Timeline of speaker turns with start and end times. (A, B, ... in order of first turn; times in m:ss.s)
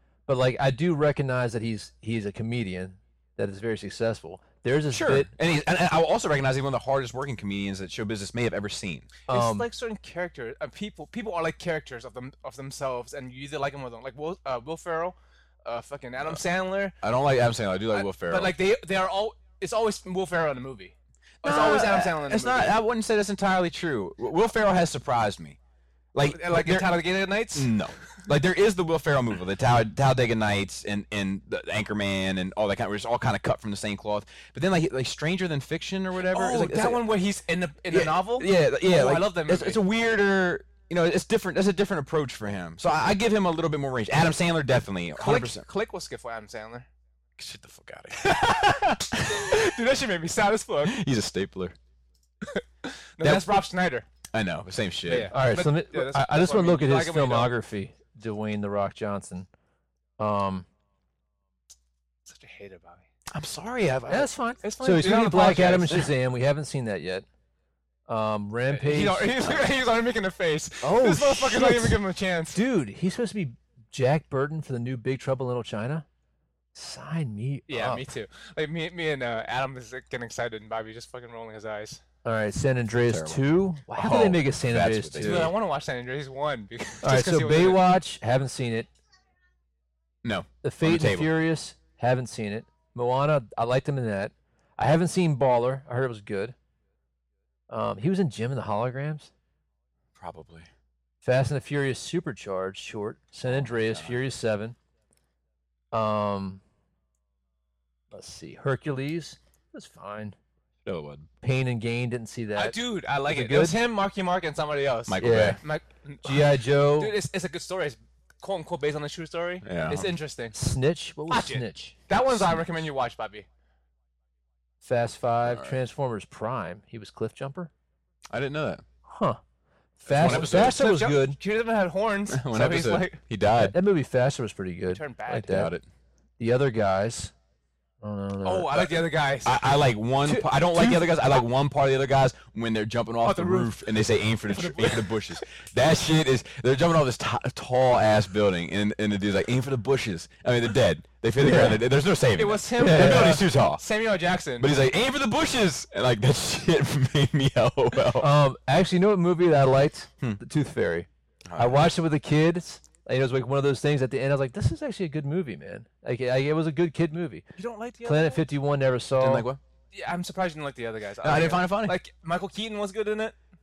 0:00.3-0:05.3 A
0:04.9-0:09.1 B
0:09.3-0:09.7 A
0:09.3-0:17.0 C
0:17.0-0:18.5 B
0:17.9-0:22.8 C
0:21.4-0:25.6 B
0:26.1-0:27.0 B
0:26.2-0:27.7 C
0:27.5-0:37.0 B
0:36.2-0:39.8 C
0:37.9-0:45.7 B
0:45.2-0:46.9 C
0:47.4-0:49.6 B
0:48.2-0:51.0 C
0:50.8-0:51.8 B
0:52.4-0:54.1 C
0:53.2-0:53.6 B
0:54.3-0:55.3 B
0:55.1-0:57.5 C
0:55.3-0:59.5 A
1:00.2-1:00.7 A
1:02.2-1:03.1 C
1:03.3-1:04.3 B
1:04.1-1:07.3 A
1:04.6-1:06.1 C
1:08.1-1:09.6 A
1:08.7-1:12.6 C
1:10.8-1:12.0 A
1:12.5-1:16.1 A
1:16.8-1:18.1 A
1:17.7-1:22.0 C
1:22.2-1:25.5 A
1:23.0-1:25.5 B
1:25.2-1:27.8 C
1:27.0-1:28.9 A
1:30.2-1:31.3 B
1:30.6-1:36.6 A
1:37.7-1:39.3 A
1:40.2-1:40.7 B
1:41.2-1:44.8 A
1:43.5-1:44.2 B
1:45.9-1:46.6 A
1:48.1-1:50.4 A
1:50.8-1:51.3 B
1:51.4-1:53.8 A
1:52.6-2:00.6 C
1:55.1-1:55.6 B
1:55.2-1:55.6 A
1:56.2-1:57.1 A
1:59.6-2:00.1 B
2:00.5-2:01.9 A
2:01.3-2:03.5 C
2:02.3-2:02.6 B
2:04.8-2:07.7 A
2:05.4-2:05.8 B
2:08.3-2:08.8 B
2:09.1-2:09.4 A
2:10.0-2:11.4 A
2:10.1-2:10.8 B
2:10.2-2:13.2 C
2:12.3-2:13.8 B
2:13.6-2:15.7 A
2:14.9-2:15.6 C
2:15.3-2:15.8 B
2:16.4-2:17.3 A
2:18.0-2:18.9 A
2:18.4-2:19.6 C
2:19.4-2:33.8 B
2:20.2-2:21.0 A
2:23.2-2:23.8 C
2:24.5-2:25.2 C
2:31.4-2:31.8 A
2:32.4-2:34.7 C
2:32.8-2:33.4 A
2:34.6-2:38.3 B
2:38.2-2:47.4 A
2:41.5-2:41.9 B
2:47.6-2:48.4 C
2:48.0-2:49.5 A
2:49.2-2:49.6 B
2:49.9-2:53.4 C
2:51.2-2:52.0 B